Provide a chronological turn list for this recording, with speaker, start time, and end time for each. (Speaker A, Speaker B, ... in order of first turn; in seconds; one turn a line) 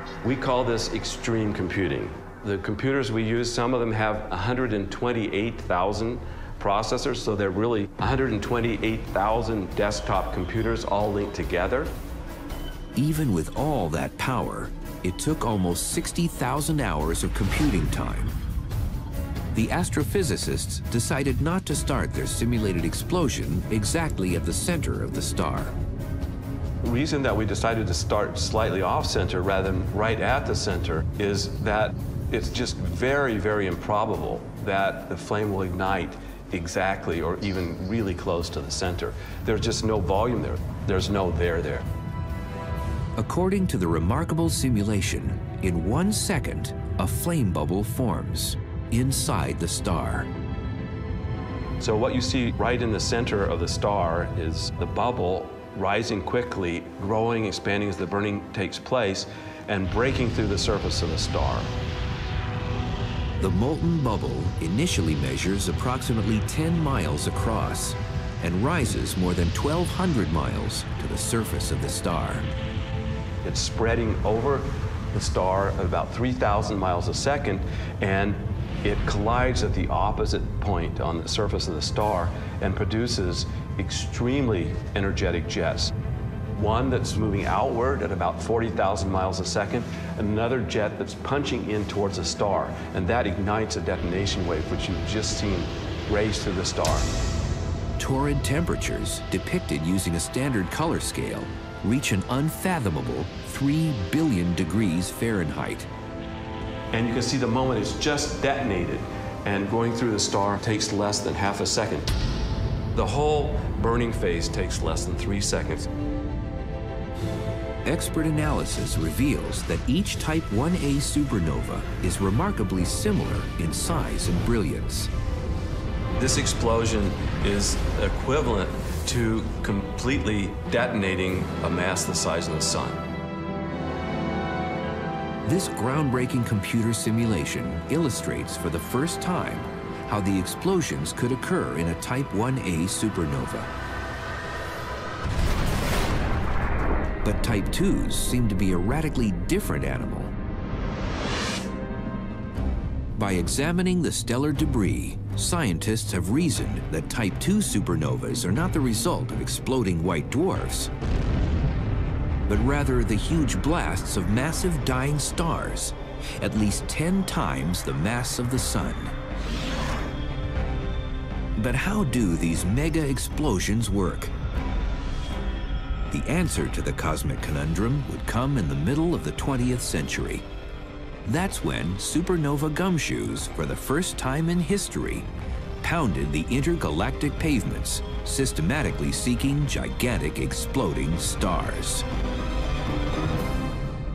Speaker A: 0.2-11.9
Speaker B: 12.9-18.4
Speaker B: 19.5-25.8
Speaker A: 26.8-41.9
Speaker B: 43.2-50.3
Speaker A: 51.8-61.7
Speaker B: 63.4-72.5
Speaker A: 73.4-85.9
Speaker A: 86.5-97.1
Speaker B: 98.0-105.9
Speaker A: 106.9-112.1
Speaker A: 112.9-115.9
Speaker B: 117.8-125.1
Speaker A: 126.2-133.0
Speaker B: 135.4-143.7
Speaker B: 147.2-150.3
Speaker B: 153.2-160.9
Speaker B: 162.5-169.1
Speaker B: 171.6-174.3
Speaker B: 176.1-180.4
Speaker B: 181.2-185.3
Speaker B: 185.8-192.1